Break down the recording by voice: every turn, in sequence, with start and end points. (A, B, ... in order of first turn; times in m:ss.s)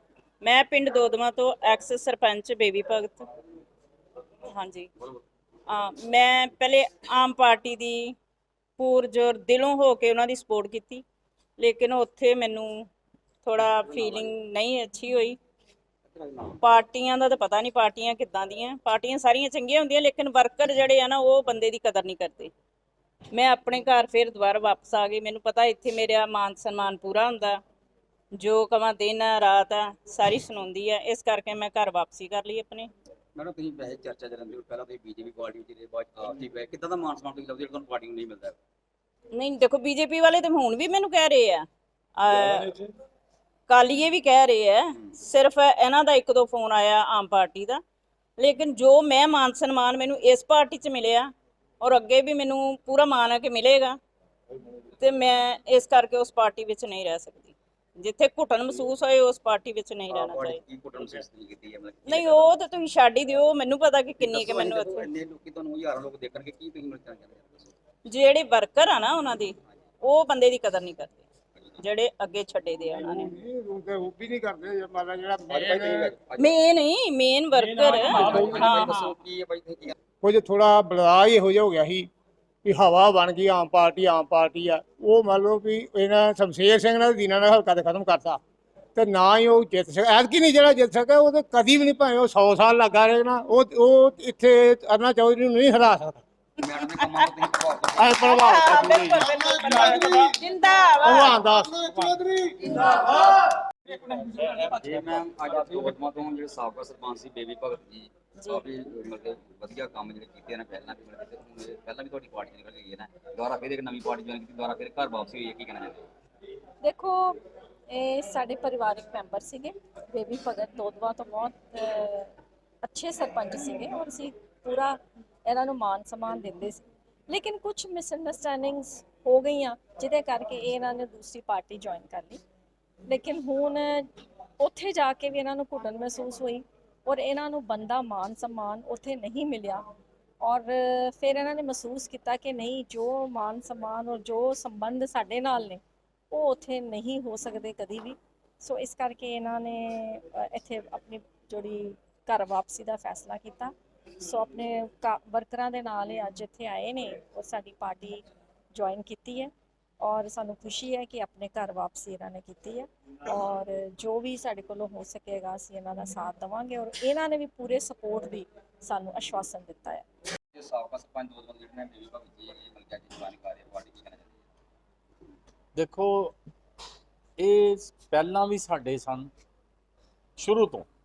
0:00.4-0:03.2 A
0:04.5-0:04.9 A
0:05.7-0:08.1 A
0:08.8-0:11.0 A
0:11.6-0:12.9 A
0:13.4-0:15.4 A
0:13.9-0:14.3 B
0:16.1-0:16.6 B
0:16.6-0:22.5 A
0:23.3-0:27.6 A
0:28.4-0:32.9 A
0:33.3-0:38.6 B
0:39.3-0:42.7 A
0:43.7-0:47.8 A
0:48.4-0:54.0 A
0:55.0-1:00.6 A
1:00.1-1:02.5 B
1:02.0-1:05.1 A
1:04.2-1:07.7 B
1:08.0-1:11.2 A
1:11.8-1:13.3 A
1:13.0-1:16.1 C
1:15.5-1:16.6 B
1:16.4-1:19.1 A
1:17.6-1:19.9 B
1:18.2-1:18.5 C
1:20.2-1:22.1 C
1:22.6-1:28.4 C
1:29.0-1:36.2 C
1:36.6-1:38.1 B
1:37.0-1:37.2 A
1:37.9-1:39.3 C
1:38.2-1:41.4 A
1:41.0-1:42.6 C
1:44.4-1:56.0 B
1:56.8-1:57.4 D
1:57.9-2:12.4 D
2:13.0-2:19.8 D
2:20.4-2:50.0 D
2:50.5-2:54.4 B
2:55.7-2:56.3 E
2:57.4-2:59.3 E
3:00.4-3:00.9 E